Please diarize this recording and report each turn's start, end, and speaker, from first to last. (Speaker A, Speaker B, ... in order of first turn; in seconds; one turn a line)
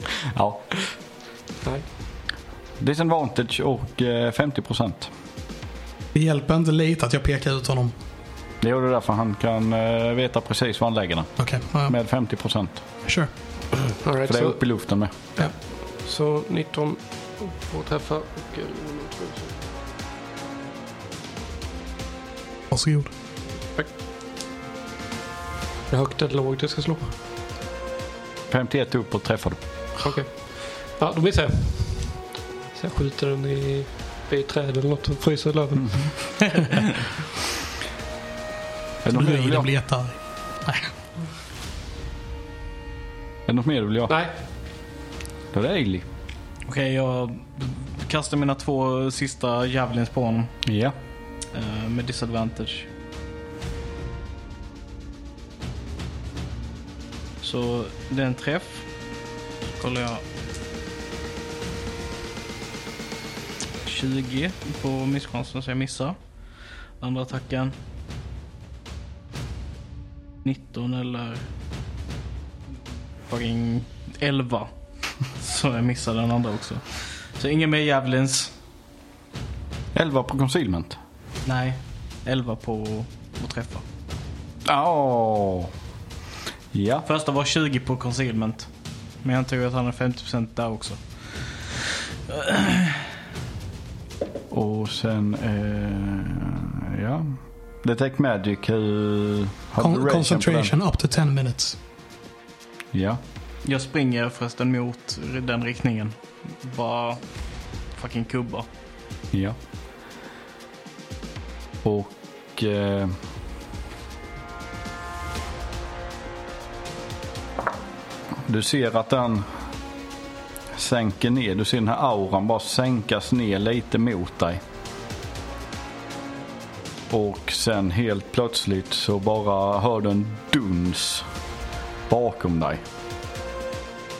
Speaker A: 0.3-0.6
Speaker A: 2.8-5.1
Speaker B: 6.1-7.9
Speaker A: 8.6-11.3
Speaker B: 11.4-11.9
Speaker A: 11.9-12.8
Speaker C: 14.0-14.6
Speaker A: 14.3-15.1
Speaker C: 15.4-19.7
Speaker B: 22.7-23.1
Speaker C: 25.9-27.1
Speaker A: 28.5-29.6
Speaker C: 30.0-36.1
Speaker D: 36.5-37.0
Speaker A: 39.0-39.7
Speaker B: 39.1-40.9
Speaker A: 43.5-44.1
Speaker A: 45.5-46.0
Speaker D: 46.7-50.5
Speaker A: 50.6-51.0
Speaker D: 51.5-52.9
Speaker D: 57.4-58.9
Speaker D: 59.8-60.2
Speaker D: 63.8-66.2
Speaker D: 67.0-67.8
Speaker D: 70.4-71.5
Speaker D: 73.3-74.7
Speaker D: 75.3-78.5
Speaker A: 80.0-81.0
Speaker D: 81.5-83.8
Speaker A: 84.6-85.7
Speaker A: 86.7-87.0
Speaker D: 87.0-88.7
Speaker D: 89.2-91.0
Speaker D: 92.3-93.1
Speaker A: 94.5-100.7
Speaker B: 99.8-101.8
Speaker A: 102.9-103.2
Speaker D: 103.6-107.2
Speaker D: 107.9-108.7
Speaker A: 111.8-113.2
Speaker A: 118.5-119.5
Speaker A: 120.7-124.6
Speaker A: 127.1-131.3
Speaker A: 132.1-132.8